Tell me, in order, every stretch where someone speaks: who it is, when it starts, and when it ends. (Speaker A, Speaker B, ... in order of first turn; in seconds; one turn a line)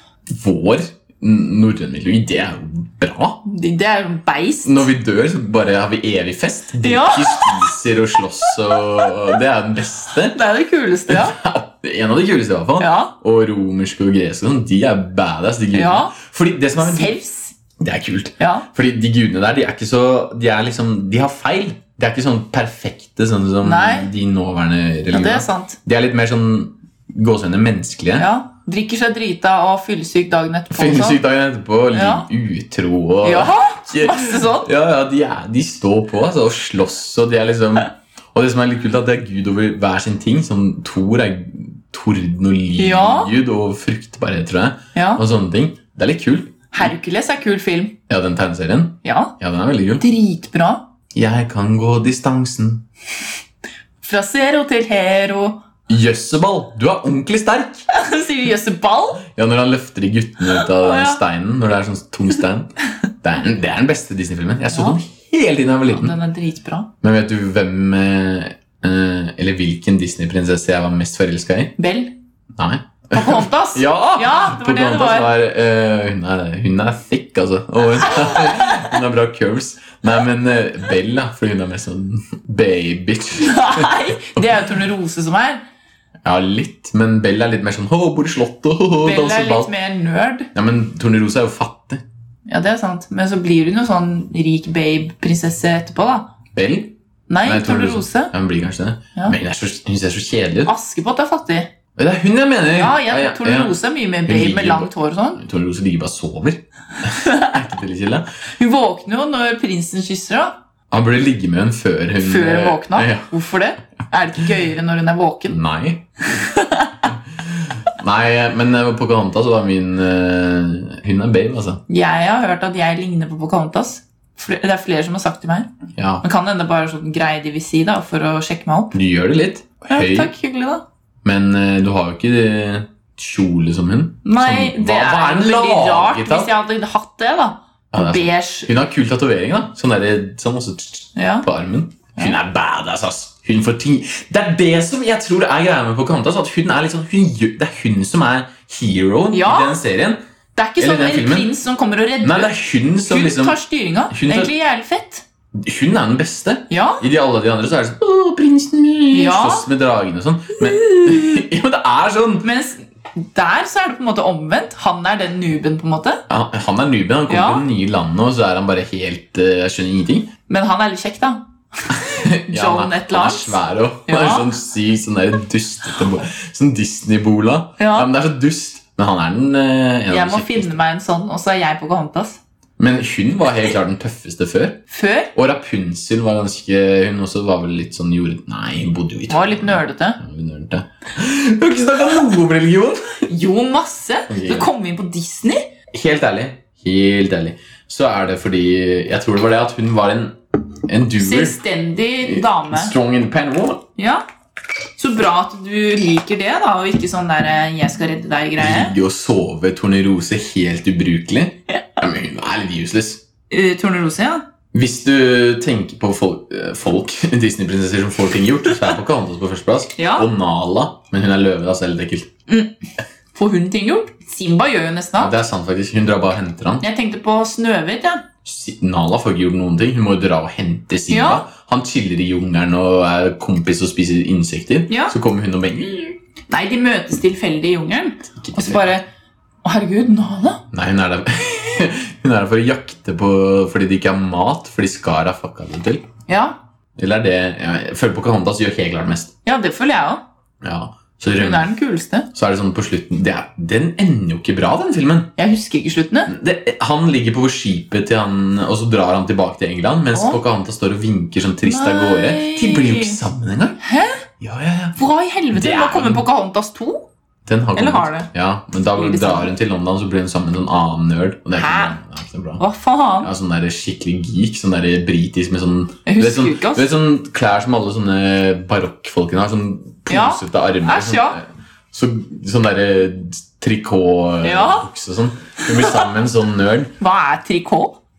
Speaker A: 0.3-3.4
Speaker B: 3.5-4.9
Speaker A: 4.7-10.4
Speaker B: 6.8-7.8
Speaker B: 8.7-9.1
Speaker B: 10.3-11.4
Speaker A: 11.1-17.1
Speaker B: 12.8-13.1
Speaker B: 15.7-16.1
Speaker B: 16.8-17.6
Speaker A: 17.8-28.3
Speaker B: 18.4-18.7
Speaker B: 23.6-24.1
Speaker B: 25.1-25.8
Speaker B: 28.2-31.2
Speaker A: 30.7-46.7
Speaker B: 31.9-32.3
Speaker B: 33.2-34.7
Speaker B: 42.8-43.3
Speaker B: 45.0-45.2
Speaker B: 46.7-48.0
Speaker A: 48.1-50.0
Speaker B: 49.0-49.3
Speaker B: 50.0-50.9
Speaker A: 51.1-52.9
Speaker B: 54.0-55.6
Speaker A: 55.9-57.9
Speaker B: 57.9-59.2
Speaker A: 59.3-66.2
Speaker B: 60.5-61.2
Speaker B: 64.7-65.0
Speaker B: 65.9-66.9
Speaker A: 67.0-71.8
Speaker B: 71.8-72.1
Speaker A: 72.6-83.9
Speaker B: 73.1-75.3
Speaker B: 83.4-85.6
Speaker A: 86.2-89.7
Speaker B: 89.0-90.5
Speaker A: 90.5-92.0
Speaker B: 92.5-96.3
Speaker A: 96.5-100.7
Speaker B: 97.3-98.3
Speaker B: 100.7-101.7
Speaker A: 102.0-108.3
Speaker B: 102.7-105.4
Speaker B: 107.2-107.6
Speaker B: 108.6-110.6
Speaker A: 110.9-113.3
Speaker B: 112.2-115.6
Speaker A: 115.5-116.1
Speaker B: 116.2-117.1
Speaker A: 117.5-121.8
Speaker B: 121.9-125.7
Speaker A: 126.0-126.2
Speaker B: 126.2-128.9
Speaker A: 128.9-130.3
Speaker B: 129.9-130.8
Speaker A: 131.2-136.5
Speaker B: 134.2-138.7
Speaker A: 137.9-150.2
Speaker B: 141.2-141.5
Speaker B: 149.3-149.8
Speaker B: 150.6-152.5
Speaker A: 150.8-151.5
Speaker A: 152.2-153.6
Speaker B: 153.1-155.2
Speaker A: 154.1-154.5
Speaker A: 155.6-162.5
Speaker B: 156.7-157.0
Speaker B: 159.1-159.7
Speaker B: 162.4-166.2
Speaker A: 166.3-170.3
Speaker B: 167.3-167.7
Speaker B: 170.5-171.4
Speaker A: 171.9-180.8
Speaker B: 172.2-174.5
Speaker B: 177.8-178.1
Speaker B: 180.1-182.4
Speaker A: 182.8-193.2
Speaker B: 184.9-185.3
Speaker B: 189.3-190.2
Speaker B: 193.3-195.7
Speaker A: 194.3-194.7
Speaker A: 195.9-201.6
Speaker B: 201.2-202.9
Speaker A: 202.2-203.9
Speaker B: 204.0-204.2
Speaker B: 205.0-208.9
Speaker A: 208.6-213.2
Speaker B: 213.5-214.5
Speaker A: 214.7-222.3
Speaker B: 220.0-220.3
Speaker B: 222.5-222.8
Speaker B: 223.3-225.3
Speaker A: 225.2-226.8
Speaker B: 226.8-228.3
Speaker A: 228.4-236.2
Speaker B: 231.1-231.5
Speaker B: 234.9-235.2
Speaker B: 236.5-239.1
Speaker A: 238.3-238.9
Speaker B: 239.6-240.6
Speaker A: 240.7-246.1
Speaker B: 246.3-246.6
Speaker A: 247.0-249.3
Speaker B: 249.4-250.2
Speaker A: 250.6-251.7
Speaker B: 251.3-252.3
Speaker A: 252.3-255.3
Speaker B: 255.4-256.3
Speaker A: 256.3-263.8
Speaker B: 260.1-260.4
Speaker B: 261.7-263.2
Speaker B: 263.8-264.2
Speaker A: 264.4-265.0
Speaker B: 265.0-267.0
Speaker A: 265.5-266.3
Speaker A: 267.5-272.6
Speaker B: 267.8-268.3
Speaker B: 268.9-269.5
Speaker B: 271.6-272.0
Speaker B: 272.6-273.3
Speaker A: 273.2-286.9
Speaker B: 276.1-276.9
Speaker B: 280.1-281.4
Speaker B: 284.4-284.9
Speaker B: 285.6-286.1
Speaker B: 287.0-288.0